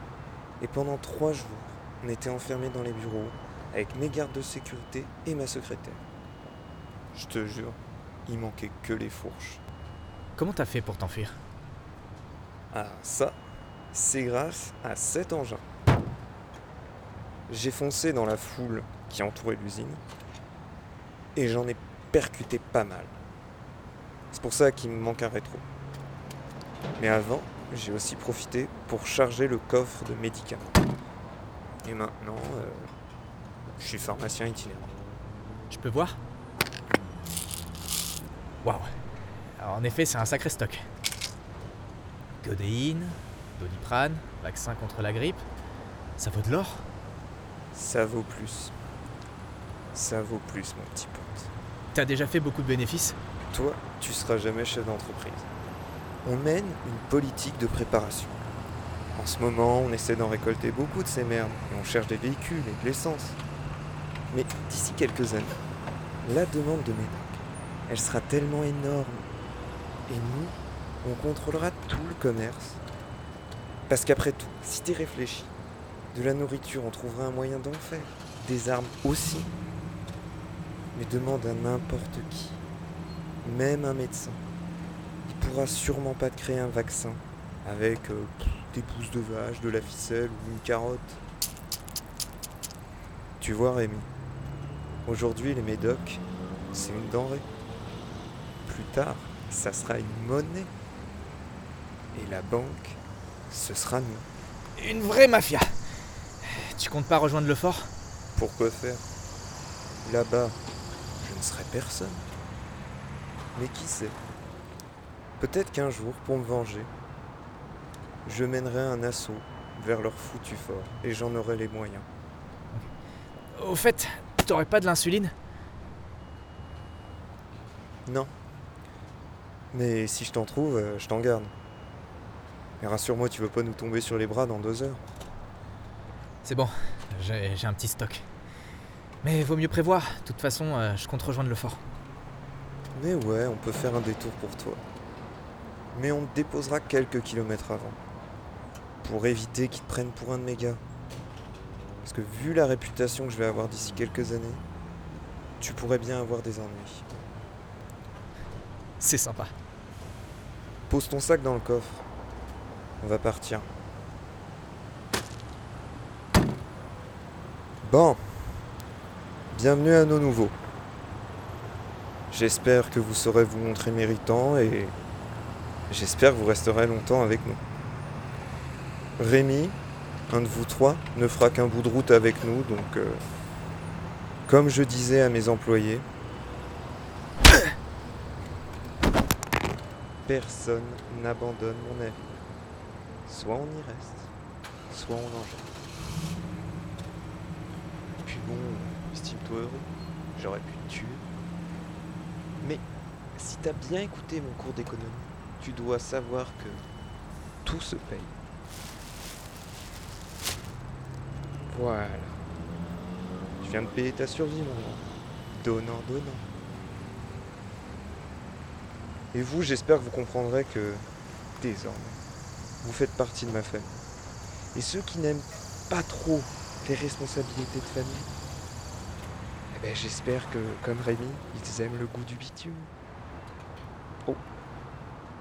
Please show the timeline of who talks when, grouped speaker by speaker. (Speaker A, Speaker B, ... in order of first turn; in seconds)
Speaker A: 0.6-6.0, 7.1-9.6, 12.7-13.4, 13.9-15.6, 17.5-20.0, 21.4-23.2, 24.3-25.6, 27.0-30.6, 31.8-32.9, 33.8-34.9, 47.7-48.7, 49.9-51.5, 53.5-55.5, 56.2-58.4, 59.1-63.4, 64.3-65.6, 66.2-69.3, 70.1-72.8, 73.9-75.5, 76.1-79.5, 81.0-82.6, 83.4-84.4, 85.2-91.2, 93.4-94.1, 95.1-97.5, 98.7-100.7, 102.1-104.3, 108.3-109.1, 110.0-110.6, 111.2-112.2, 113.5-114.2, 115.4-116.9, 118.2-122.1, 129.7-131.5, 132.8-135.0, 142.9-144.8, 145.9-148.0, 149.0-150.8, 152.0-154.6, 155.6-157.1, 160.9-162.1, 163.0-163.7, 167.8-168.3, 169.5-170.6, 172.3-175.0, 175.9-177.6, 179.2-179.8, 180.3-183.2, 184.5-186.1, 190.3-192.3, 193.3-194.3, 194.9-195.7, 198.2-201.3, 203.3-206.9, 207.7-208.4, 211.7-212.4, 213.6-216.5, 219.3-221.1, 221.6-222.2, 222.8-224.1, 224.7-228.3, 229.7-232.9
Speaker B: 10.4-11.4, 35.7-36.1, 38.6-38.9, 39.6-40.8, 42.4-45.4, 46.2-46.9, 51.9-53.2, 104.8-105.7, 106.4-107.9, 123.5-125.3, 136.4-138.3, 139.2-141.8, 159.0-159.5